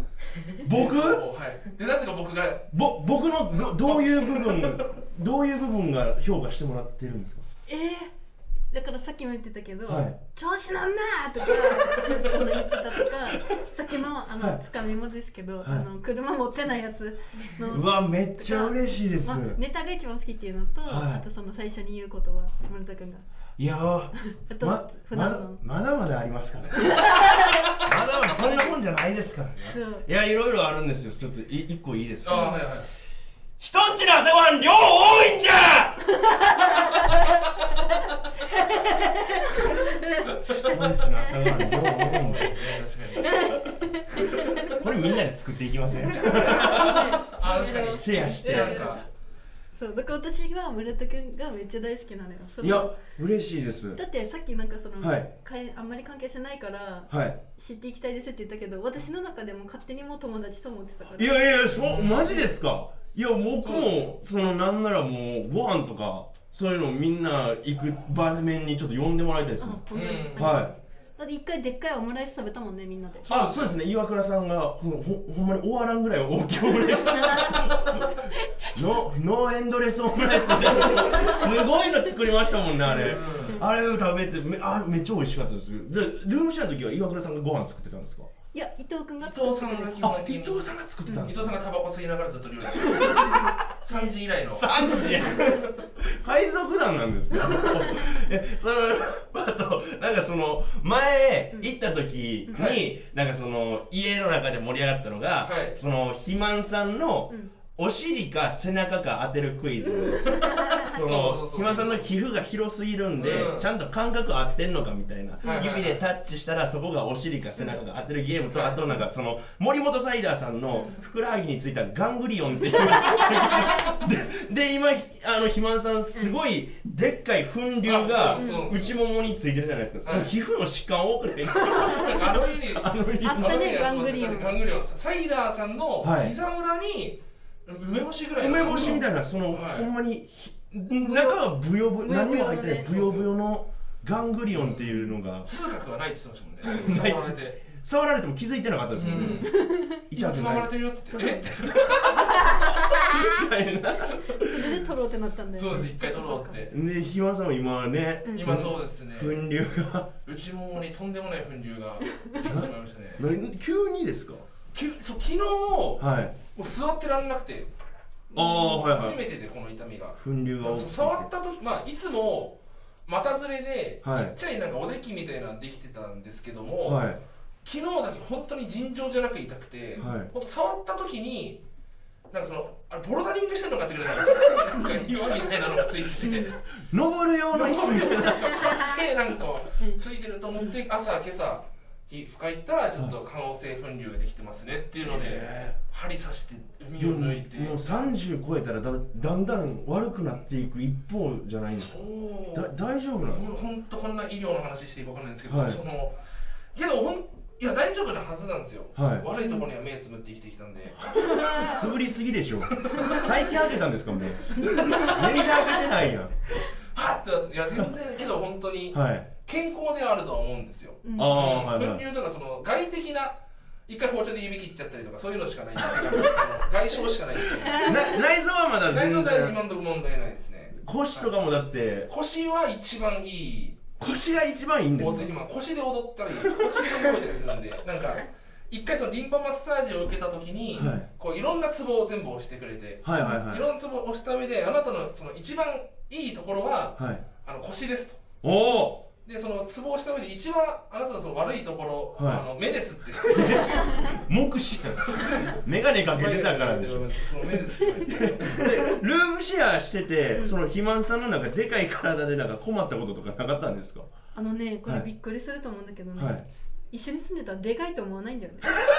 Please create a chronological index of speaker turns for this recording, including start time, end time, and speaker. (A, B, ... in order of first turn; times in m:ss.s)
0:00.6-0:01.2 A
0:00.7-0:02.8 B
0:02.7-0:07.4 A
0:03.5-0:04.9 B
0:07.7-0:08.1 C
0:08.7-0:23.2 C
0:09.9-0:10.2 A
0:11.4-0:13.6 A
0:15.6-0:15.9 A
0:17.7-0:19.6 A
0:20.8-0:21.2 A
0:23.6-0:32.7 A
0:24.5-0:25.6 C
0:26.8-0:27.5 C
0:28.4-0:28.8 C
0:29.7-0:30.0 C
0:32.2-0:32.9 B
0:32.3-0:32.6 C
0:33.6-0:36.0 A
0:40.5-0:42.8 A
0:40.7-0:42.0 C
0:42.0-0:43.6 B
0:43.2-0:45.2 C
0:44.2-0:49.0 A
0:46.2-0:49.0 B
0:46.3-0:49.0 C
0:49.7-0:52.9 C
0:52.6-0:54.0 A
0:54.0-1:01.7 C
0:55.0-0:55.3 A
0:57.1-0:57.4 A
1:01.2-1:10.7 A
1:01.8-1:02.4 B
1:03.6-1:04.1 B
1:09.6-1:13.3 C
1:09.9-1:10.6 B
1:13.2-1:18.1 A
1:13.3-1:13.8 B
1:17.0-1:17.7 C
1:18.8-1:28.3 A
1:20.4-1:23.6 C
1:23.0-1:23.6 B
1:28.5-1:30.1 C
1:29.2-1:35.3 B
1:30.0-1:31.6 A
1:31.1-1:31.4 C
1:32.7-1:33.8 A
1:33.2-1:34.1 C
1:34.5-2:13.8 A
1:37.5-1:38.1 C
1:42.5-1:42.9 B
1:45.4-1:45.8 B
1:49.9-1:50.8 C
1:50.3-1:52.1 B
1:53.2-1:53.7 B
1:55.4-1:56.0 B
1:55.4-1:55.8 C
1:58.5-1:58.8 B
2:00.7-2:01.0 C
2:02.9-2:03.6 C
2:07.8-2:09.0 B
2:08.4-2:08.7 C
2:10.0-2:10.3 B
2:11.5-2:19.9 B
2:13.2-2:14.6 C
2:16.0-2:16.4 A
2:18.4-2:25.5 A
2:18.7-2:19.0 C
2:21.0-2:23.0 C
2:22.9-2:23.3 B
2:24.5-2:27.7 B
2:26.6-2:29.6 A
2:28.9-2:29.5 B
2:29.1-2:30.1 C
2:30.1-2:34.9 A
2:30.1-2:32.0 B
2:31.2-2:31.4 C
2:34.4-2:36.6 C
2:35.6-2:36.7 B
2:36.7-2:40.1 A
2:38.2-2:38.7 C
2:38.3-2:39.5 B
2:40.2-2:43.2 B
2:42.2-2:42.4 C
2:42.4-2:44.5 A
2:44.7-2:47.7 B
2:46.0-2:46.4 A
2:48.3-2:49.2 A
2:48.3-2:57.1 B
2:48.4-2:48.8 C
2:50.2-2:51.3 A
2:54.0-2:54.4 A
2:56.8-2:57.2 A
2:57.6-3:01.6 B
3:00.0-3:00.3 A
3:02.3-3:06.6 B
3:04.8-3:05.0 C
3:06.2-3:06.6 C
3:06.8-3:08.8 A
3:07.5-3:18.1 B
3:08.5-3:09.0 C
3:15.0-3:15.8 A
3:17.0-3:23.7 A
3:21.7-3:26.2 B
3:25.5-3:25.8 A
3:26.8-3:31.8 B
3:28.9-3:29.3 A
3:29.3-3:29.7 C
3:31.0-3:36.3 A
3:31.2-3:31.8 C
3:32.7-3:33.6 B
3:34.6-3:35.5 B
3:34.6-3:35.8 C
3:36.9-3:48.2 B
3:38.9-3:39.3 A
3:41.0-3:41.4 C
3:41.1-3:42.0 A
3:45.8-3:46.4 A
3:47.6-3:48.2 C
3:47.6-3:49.6 A
3:48.9-3:51.4 B
3:50.7-3:52.1 A
3:52.1-3:53.9 B
3:54.0-3:55.4 A
3:55.0-4:08.2 B
3:56.4-3:57.3 A
4:00.7-4:01.1 A
4:03.0-4:03.7 A
4:07.0-4:07.2 A
4:08.4-4:09.1 A
4:09.2-4:14.1 B
4:12.2-4:12.4 A
4:13.2-4:24.1 A
4:15.2-4:19.0 B
4:24.4-4:28.7 C
4:26.2-4:26.4 A